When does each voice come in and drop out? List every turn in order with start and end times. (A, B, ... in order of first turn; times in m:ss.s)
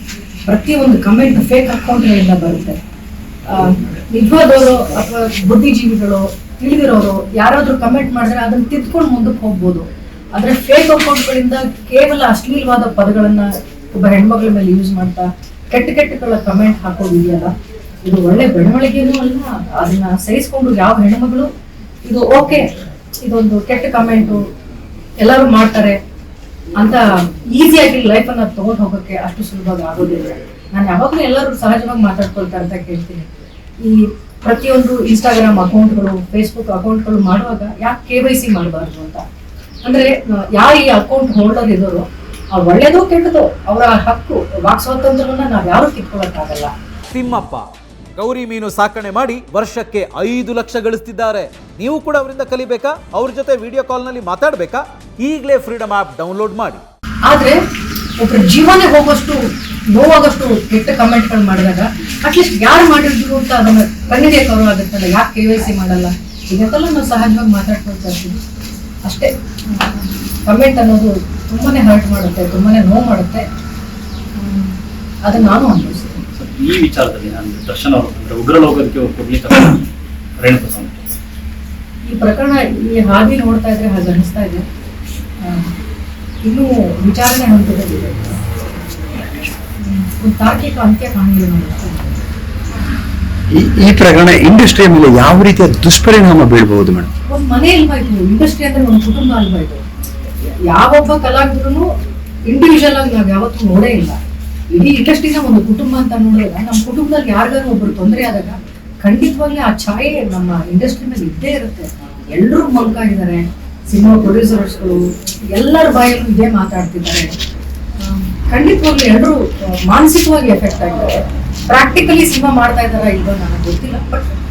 0:00.4-0:02.8 A
0:03.5-0:17.5 A
0:18.0-0:21.5 A
0:22.0-0:22.6 A
0:23.2-0:24.4 A
0:25.2-0:26.0 A
0:26.8-0:33.3 A
0:33.8-0:39.2 A
0:39.8-0:46.7 A
0:47.1-0:47.6 B
0:48.2-0:56.8 B
0:57.2-0:57.6 A
0:58.2-0:59.4 A
0:59.9-1:08.4 A
1:09.0-1:13.4 A
1:14.4-1:16.2 A
1:16.3-1:21.2 C
1:22.1-1:24.6 A
1:25.4-1:25.7 A
1:26.4-1:28.4 A
1:29.8-1:32.2 A
1:33.5-1:37.1 D
1:37.3-1:39.8 A
1:40.6-1:41.9 A
1:42.5-1:44.2 A
1:44.7-1:55.0 A
1:55.5-1:57.3 A
1:58.0-2:01.2 A
2:01.7-2:04.3 A